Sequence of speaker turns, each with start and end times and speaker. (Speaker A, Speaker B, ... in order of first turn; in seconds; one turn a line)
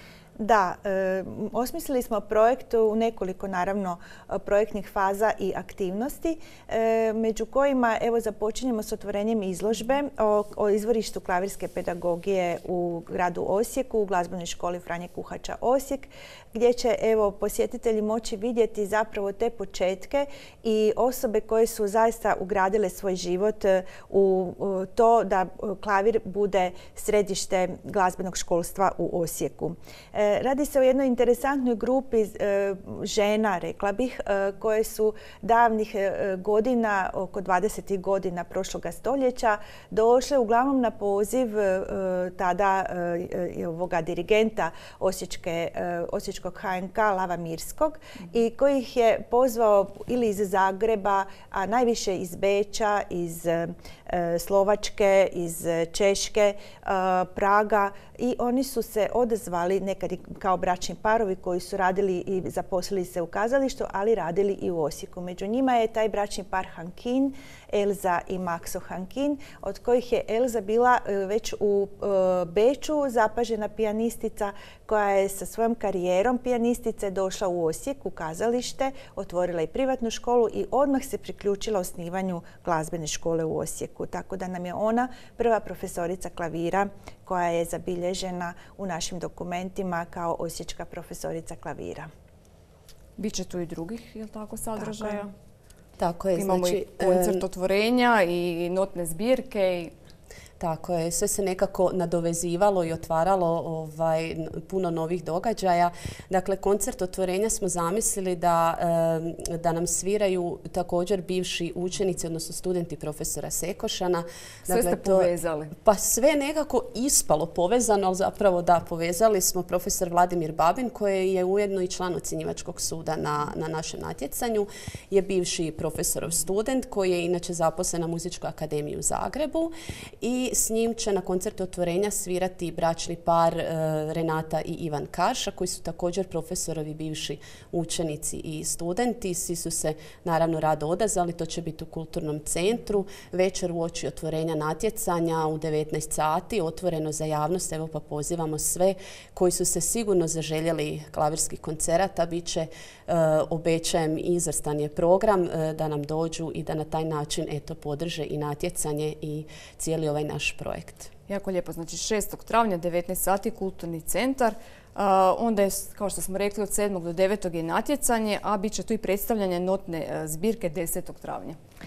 Speaker A: 0.4-92.1
Speaker B: 93.2-95.3
Speaker A: 94.8-95.2
Speaker C: 96.0-97.4
Speaker B: 96.4-99.9
Speaker C: 100.6-161.1
Speaker B: 114.7-115.7
Speaker B: 161.3-171.6